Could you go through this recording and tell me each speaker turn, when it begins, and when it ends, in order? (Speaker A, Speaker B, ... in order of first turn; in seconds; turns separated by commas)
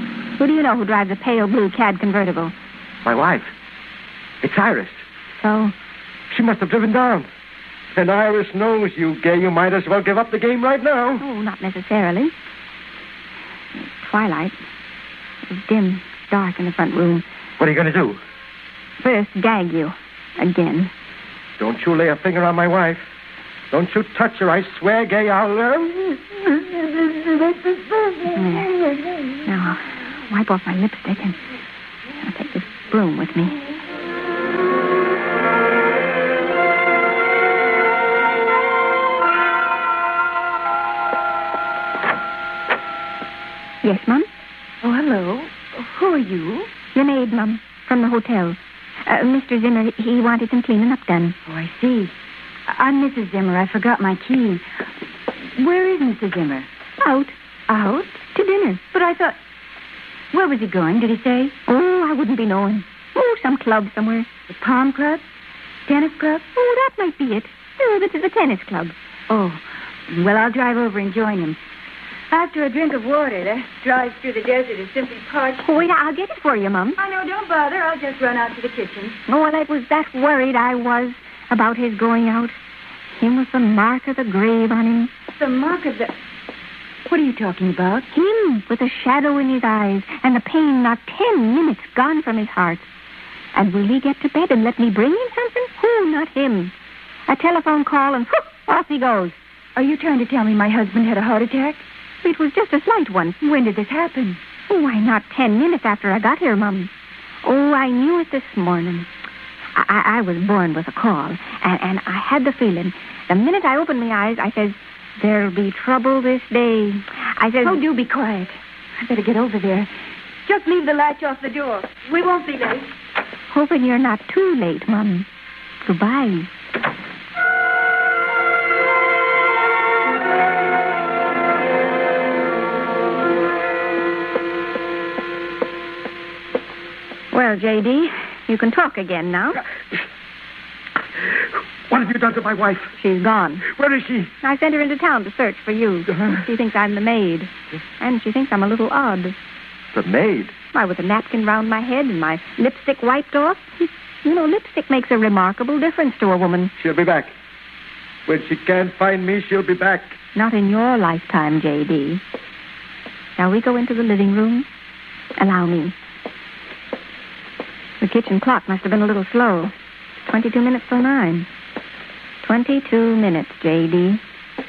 Speaker A: 0.4-2.5, Speaker B: 3.0-3.5, Speaker B: 4.4-5.0, Speaker A: 5.4-5.7, Speaker B: 6.3-7.3, Speaker B: 7.9-11.2, Speaker A: 11.2-12.3, Speaker A: 13.8-14.5, Speaker A: 15.5-17.2, Speaker B: 17.6-18.2, Speaker A: 19.0-20.9, Speaker B: 21.6-23.1, Speaker B: 23.7-28.2, Speaker A: 28.3-28.7, Speaker A: 29.4-31.4, Speaker A: 32.2-33.6, Speaker A: 43.8-44.3, Speaker C: 44.8-46.7, Speaker A: 46.9-51.4, Speaker C: 51.5-52.1, Speaker C: 52.7-54.6, Speaker C: 55.5-56.7, Speaker A: 57.0-57.3, Speaker C: 57.7-58.2, Speaker A: 58.3-58.8, Speaker C: 58.9-59.4, Speaker C: 60.3-61.5, Speaker A: 61.7-64.3, Speaker C: 64.5-65.2, Speaker C: 65.9-66.4, Speaker A: 66.5-68.9, Speaker C: 69.3-71.6, Speaker C: 72.3-75.7, Speaker A: 75.6-77.0, Speaker C: 77.0-79.2, Speaker A: 79.3-82.5, Speaker A: 83.2-85.1, Speaker C: 85.3-86.1, Speaker C: 87.1-88.0, Speaker A: 88.1-92.9, Speaker A: 93.5-96.7, Speaker A: 97.3-99.3, Speaker C: 99.8-101.8, Speaker A: 102.2-103.4, Speaker C: 103.4-104.4, Speaker A: 104.7-106.9, Speaker A: 107.4-109.1, Speaker A: 109.7-117.8, Speaker C: 117.6-119.9, Speaker C: 120.4-122.9, Speaker A: 123.5-125.3, Speaker A: 125.8-126.5, Speaker A: 137.3-139.6, Speaker B: 141.9-142.9, Speaker A: 143.0-143.7, Speaker B: 143.6-144.3, Speaker A: 144.4-149.3, Speaker B: 149.9-150.5, Speaker A: 150.7-156.7, Speaker B: 156.8-157.3, Speaker B: 158.3-160.2, Speaker A: 160.3-162.2, Speaker A: 163.4-164.7, Speaker A: 165.4-165.9, Speaker A: 168.0-171.5, Speaker A: 172.4-174.2